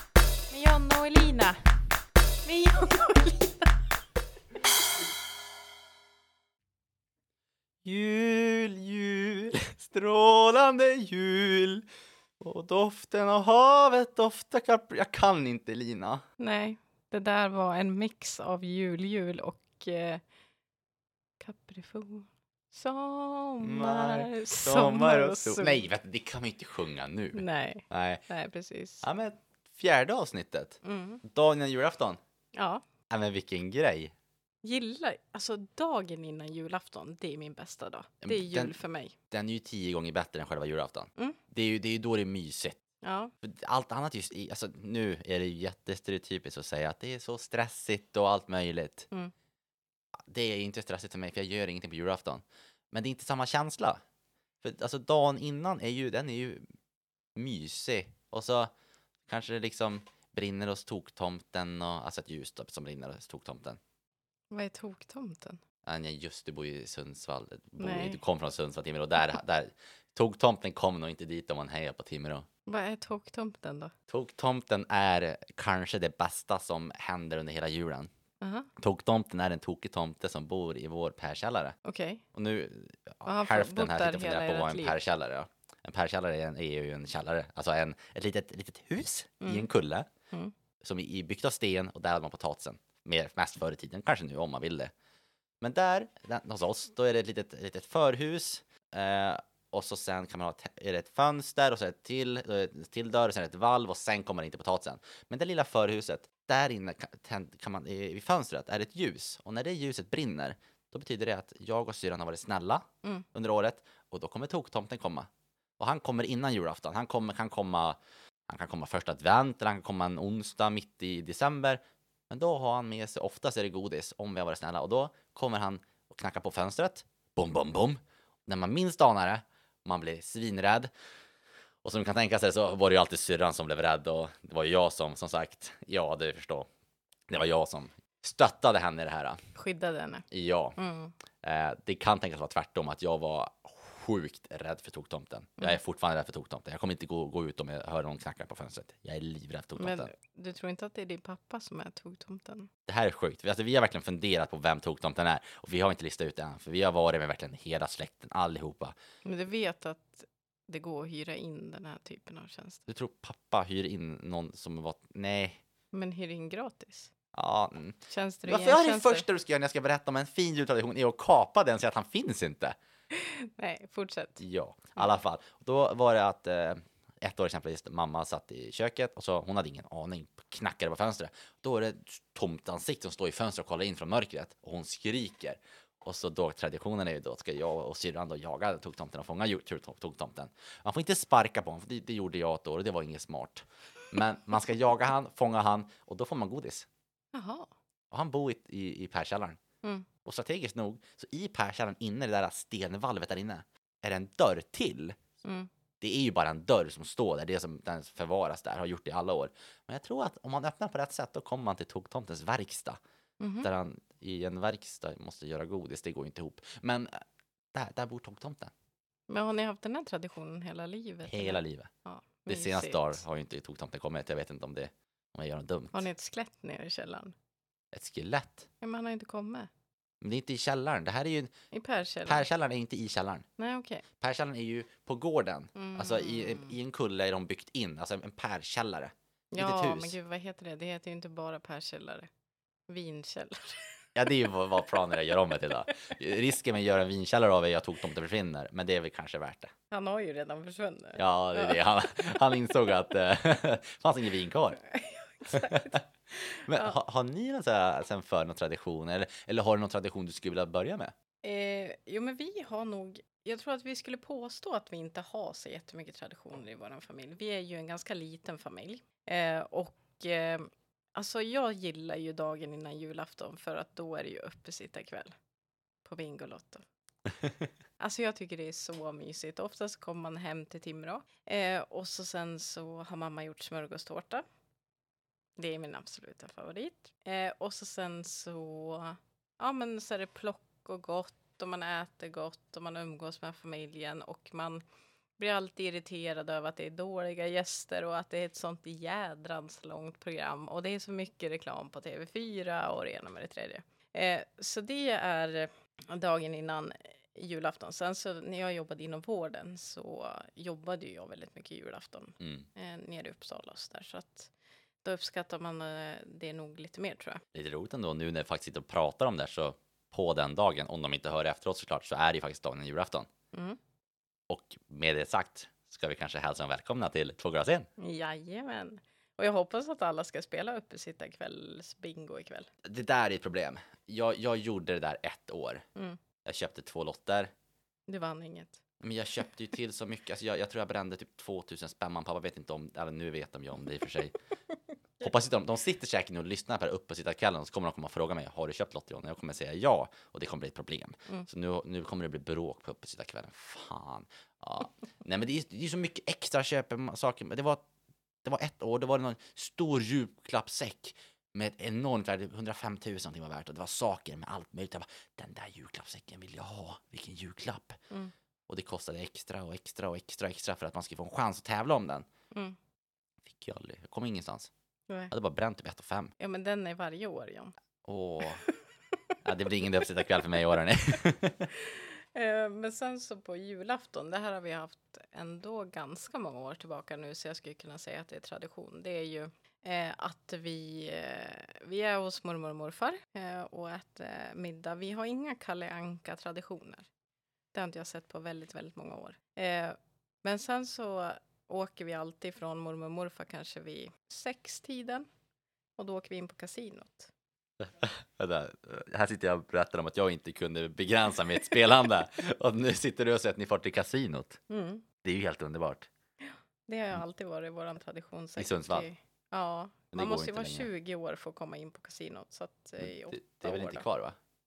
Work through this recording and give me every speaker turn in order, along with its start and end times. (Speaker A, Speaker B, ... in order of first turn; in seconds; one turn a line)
Speaker A: 0.5-1.6
Speaker A: 2.4-3.8
Speaker B: 7.8-11.8
Speaker B: 12.4-16.2
Speaker A: 16.4-20.2
Speaker A: 21.4-25.9
Speaker B: 23.6-28.2
Speaker A: 27.3-29.1
Speaker B: 29.0-32.2
Speaker A: 30.8-31.2
Speaker A: 32.5-32.8
Speaker B: 33.1-34.1
Speaker A: 34.6-39.1
Speaker B: 38.2-38.8
Speaker B: 39.3-42.8
Speaker A: 43.0-43.3
Speaker B: 43.4-49.1
Speaker B: 50.3-54.0
Speaker B: 54.6-56.6
Speaker B: 57.4-58.7
Speaker B: 59.3-63.8
Speaker A: 64.5-65.6
Speaker B: 65.8-72.5
Speaker A: 67.8-68.2
Speaker A: 72.7-73.9
Speaker B: 74.1-78.1
Speaker A: 78.4-78.7
Speaker B: 78.8-81.7
Speaker A: 81.8-82.2
Speaker B: 82.3-90.1
Speaker A: 83.2-85.0
Speaker A: 89.4-89.7
Speaker B: 90.8-94.9
Speaker B: 95.6-115.3
Speaker B: 115.8-118.0
Speaker B: 118.5-130.9
Speaker B: 131.8-136.7
Speaker B: 137.3-139.4
Speaker A: 139.5-140.2
Speaker B: 140.3-140.8
Speaker A: 140.8-141.1
Speaker B: 141.4-150.1
Speaker A: 149.8-152.7
Speaker B: 152.9-158.9
Speaker A: 159.2-162.8
Speaker B: 162.9-165.6
Speaker A: 165.9-167.1
Speaker B: 167.3-172.8
Speaker A: 168.1-169.2
Speaker A: 173.1-174.4
Speaker B: 174.4-196.9
Speaker A: 197.3-197.7
Speaker B: 198.1-199.6
Speaker A: 199.8-200.1
Speaker B: 200.2-205.2
Speaker A: 205.4-205.7
Speaker B: 206.0-213.0
Speaker A: 213.4-213.7
Speaker B: 213.6-217.1
Speaker B: 217.7-218.7
Speaker A: 219.3-223.2
Speaker B: 221.2-221.9
Speaker B: 222.5-226.1
Speaker A: 225.9-227.3
Speaker B: 227.9-228.7
Speaker A: 228.8-229.7
Speaker B: 230.2-231.5
Speaker A: 231.7-232.5
Speaker B: 232.2-233.4
Speaker A: 233.6-234.0
Speaker B: 234.2-240.2
Speaker A: 235.7-236.7
Speaker A: 239.5-242.3
Speaker A: 242.9-243.9
Speaker B: 244.2-249.7
Speaker A: 249.9-252.4
Speaker B: 251.2-254.8
Speaker A: 254.8-257.0
Speaker B: 255.5-256.0
Speaker B: 256.5-261.1
Speaker A: 261.4-275.3
Speaker A: 276.0-276.8
Speaker A: 278.0-284.4
Speaker A: 285.6-294.8
Speaker A: 295.4-314.5
Speaker B: 312.4-312.7
Speaker A: 315.0-317.4
Speaker B: 317.5-323.3
Speaker A: 323.5-323.8
Speaker B: 324.5-327.9
Speaker A: 328.0-332.7
Speaker B: 332.8-335.8
Speaker B: 336.4-337.5
Speaker A: 338.1-338.8
Speaker B: 339.0-344.4
Speaker B: 345.2-357.8
Speaker B: 358.4-368.0
Speaker B: 368.7-372.2
Speaker B: 373.5-374.7
Speaker B: 375.3-376.3
Speaker A: 376.4-377.7
Speaker B: 378.0-378.6
Speaker B: 379.4-381.7
Speaker A: 381.7-397.1
Speaker A: 397.7-405.3
Speaker A: 406.0-407.3
Speaker B: 407.8-414.6
Speaker A: 414.7-415.0
Speaker B: 415.2-416.1
Speaker A: 416.9-424.0
Speaker B: 418.6-419.1
Speaker B: 420.1-420.9
Speaker B: 423.0-424.4